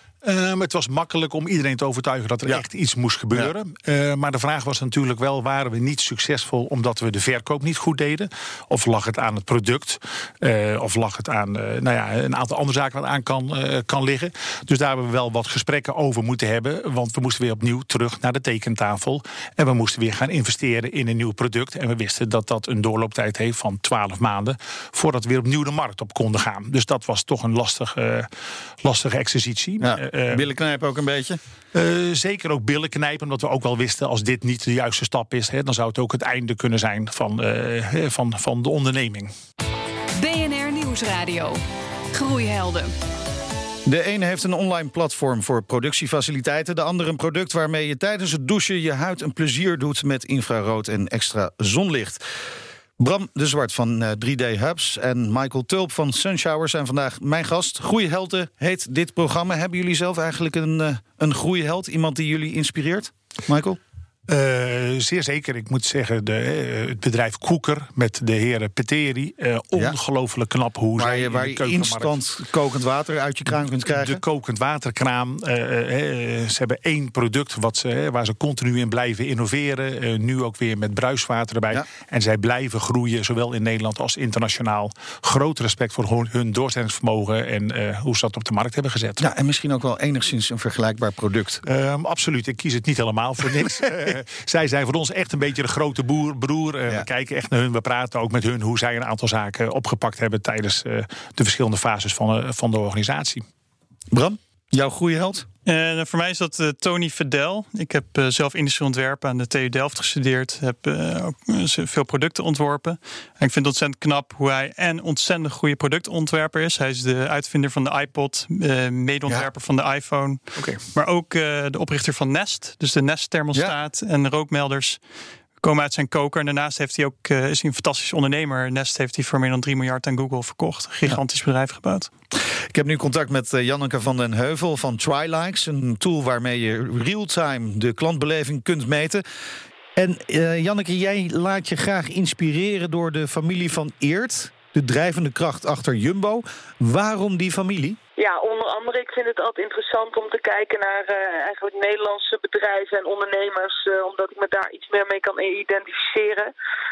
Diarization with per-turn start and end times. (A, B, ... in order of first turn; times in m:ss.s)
0:00.2-0:28.3 A
0:28.8-0:30.4 A
0:29.8-0:31.4 B
0:31.7-0:39.3 A
0:40.2-0:41.6 C
0:42.1-0:42.9 C
0:43.8-0:52.2 B
0:53.0-1:03.8 B
1:04.3-1:12.2 A
1:11.0-1:14.2 B
1:13.8-1:29.2 A
1:29.2-1:31.6 B
1:31.6-1:43.4 A
1:44.1-1:45.5 B
1:45.6-2:05.0 D
2:05.6-2:12.1 D
2:12.7-2:19.2 B
2:20.0-2:28.0 B
2:28.2-2:36.5 E